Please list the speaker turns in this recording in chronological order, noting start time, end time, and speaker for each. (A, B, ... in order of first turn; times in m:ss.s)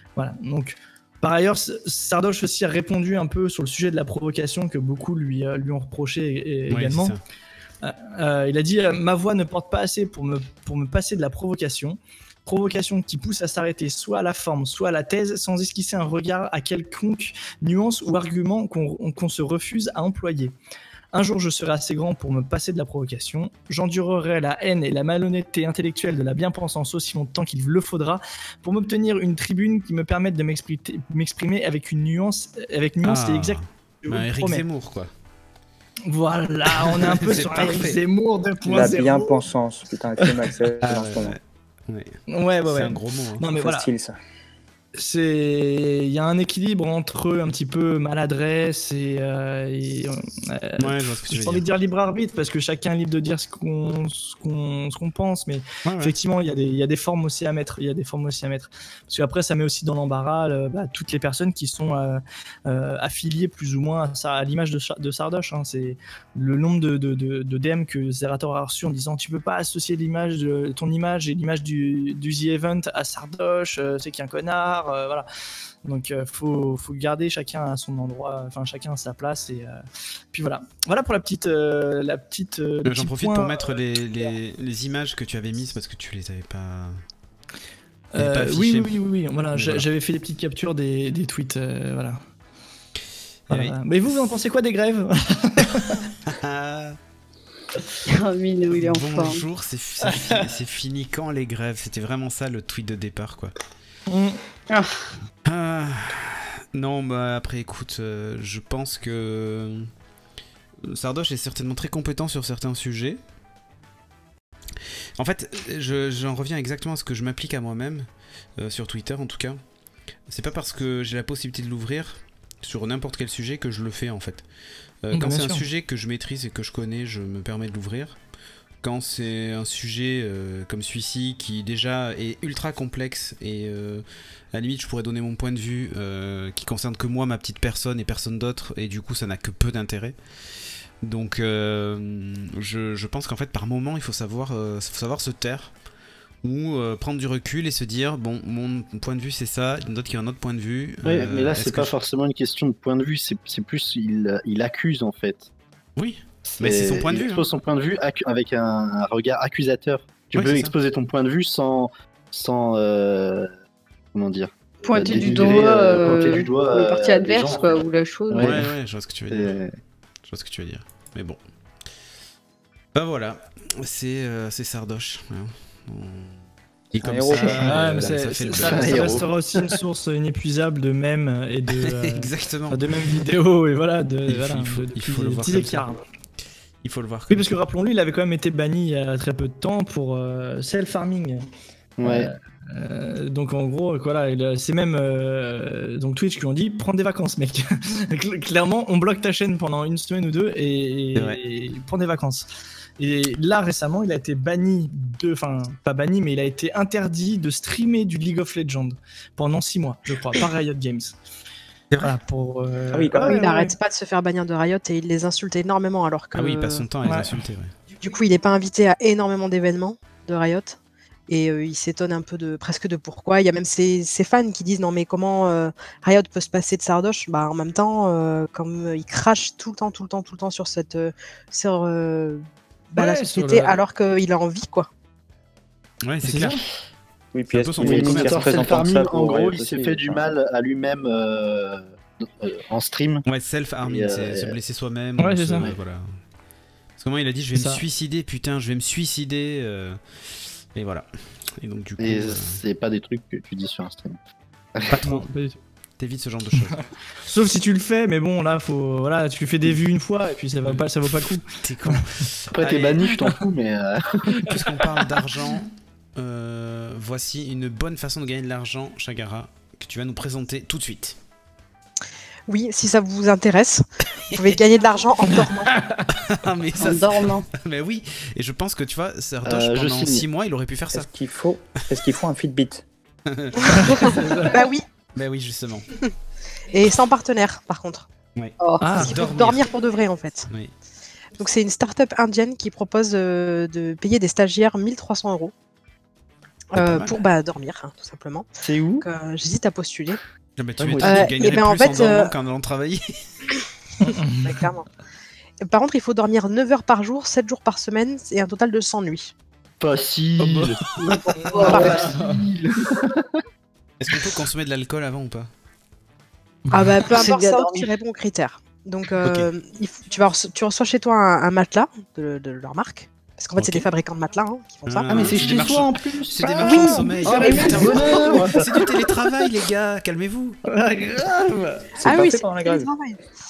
0:00.2-0:07.2 A
0:06.7-0:07.2 B
0:07.8-0:20.6 A
0:21.1-0:34.6 A
0:33.0-0:35.1 B
0:36.1-0:39.4 A
0:36.7-0:38.0 B
0:38.6-0:41.4 C
0:40.8-0:43.5 B
0:42.3-0:43.9 A
0:43.6-0:44.1 C
0:45.0-1:15.3 A
0:50.8-0:51.7 B
0:55.8-0:56.2 B
1:15.8-1:19.8 A
1:20.3-1:23.8 A
1:22.8-1:27.0 B
1:28.2-1:32.2 A
1:28.2-1:29.0 B
1:29.5-1:29.9 B
1:33.5-1:34.2 B
1:33.5-1:36.1 A
1:36.2-1:37.0 B
1:38.1-1:39.4 D
1:38.7-1:43.6 B
1:40.0-1:40.5 A
1:44.1-1:44.4 A
1:44.7-1:45.1 D
1:45.4-1:49.9 B
1:50.8-1:53.2 B
1:55.2-1:59.6 B
2:00.3-2:04.4 B
2:05.0-2:08.2 B
2:05.1-2:05.6 A
2:08.8-2:20.2 B
2:21.0-2:25.7 B
2:26.4-2:31.9 B
2:31.0-2:35.5 E
2:36.0-2:37.4 B
2:36.6-2:43.5 E
2:40.3-2:40.7 B
2:44.1-2:48.7 E
2:44.8-2:48.6 D
2:48.4-2:49.6 B
2:49.3-2:49.7 E
2:50.3-2:51.4 B
2:53.0-2:56.4 B
2:56.9-2:59.2 B
2:57.0-2:57.9 C
2:57.4-3:06.0 A
2:58.6-2:59.7 E
3:01.8-3:02.8 B
3:04.3-3:05.9 B
3:06.8-3:07.6 B
3:07.3-3:11.4 A
3:12.0-3:12.3 E
3:12.0-3:31.2 A
3:21.2-3:21.4 B
3:32.0-3:33.7 A
3:32.9-3:33.5 C
3:33.2-3:36.9 F
3:36.3-3:37.7 B
3:37.0-3:37.4 A
3:38.0-3:40.8 F
3:41.3-3:52.4 F
3:52.9-3:53.8 A
3:53.0-3:54.9 F
3:56.0-3:56.6 B
3:56.2-3:56.6 A
3:57.3-4:00.3 C
3:57.5-3:58.8 B
3:57.8-4:03.2 E
4:03.2-4:06.1 B
4:03.8-4:04.6 E
4:05.2-4:05.7 A
4:07.0-4:10.0 B
4:07.5-4:07.8 A
4:10.7-4:11.1 B
4:11.6-4:12.6 B
4:12.0-4:14.2 E
4:14.9-4:15.3 B
4:15.0-4:15.6 A
4:16.0-4:16.8 B
4:16.7-4:22.1 A
4:21.6-4:23.0 B
4:22.5-4:24.4 E
4:24.4-4:25.2 A
4:24.4-4:31.2 B
4:32.5-4:35.8 F
4:35.5-4:36.2 A
4:36.1-4:41.1 B
4:36.8-4:37.5 D
4:39.4-4:40.3 E
4:40.9-4:42.8 C
4:43.3-4:44.5 B
4:43.6-4:44.8 F
4:43.7-4:44.7 A
4:45.2-4:45.9 B
4:46.7-4:48.1 F
4:48.4-4:49.6 B
4:48.6-4:48.9 D
4:48.8-4:49.2 A
4:48.9-4:50.5 F
4:51.4-4:55.5 F
4:56.7-4:58.5 F
4:56.8-4:57.2 B
4:58.6-4:59.1 E
4:59.0-5:00.2 F
5:00.6-5:03.2 B
5:00.8-5:01.3 E
5:01.0-5:02.3 F
5:04.0-5:04.6 A
5:04.0-5:04.9 F
5:05.6-5:09.3 F
5:09.8-5:10.8 E
5:10.4-5:11.6 B
5:11.0-5:12.0 D
5:11.4-5:12.5 A
5:11.6-5:12.0 F
5:11.6-5:13.3 E
5:14.0-5:15.5 B
5:16.7-5:17.0 A
5:16.7-5:25.4 F
5:17.0-5:17.9 D
5:19.2-5:19.5 B
5:23.6-5:23.9 B
5:24.9-5:30.6 B
5:25.1-5:28.7 E
5:26.6-5:28.8 A
5:26.7-5:28.3 F
5:30.7-5:32.0 A
5:32.0-5:32.9 C
5:32.0-5:33.2 F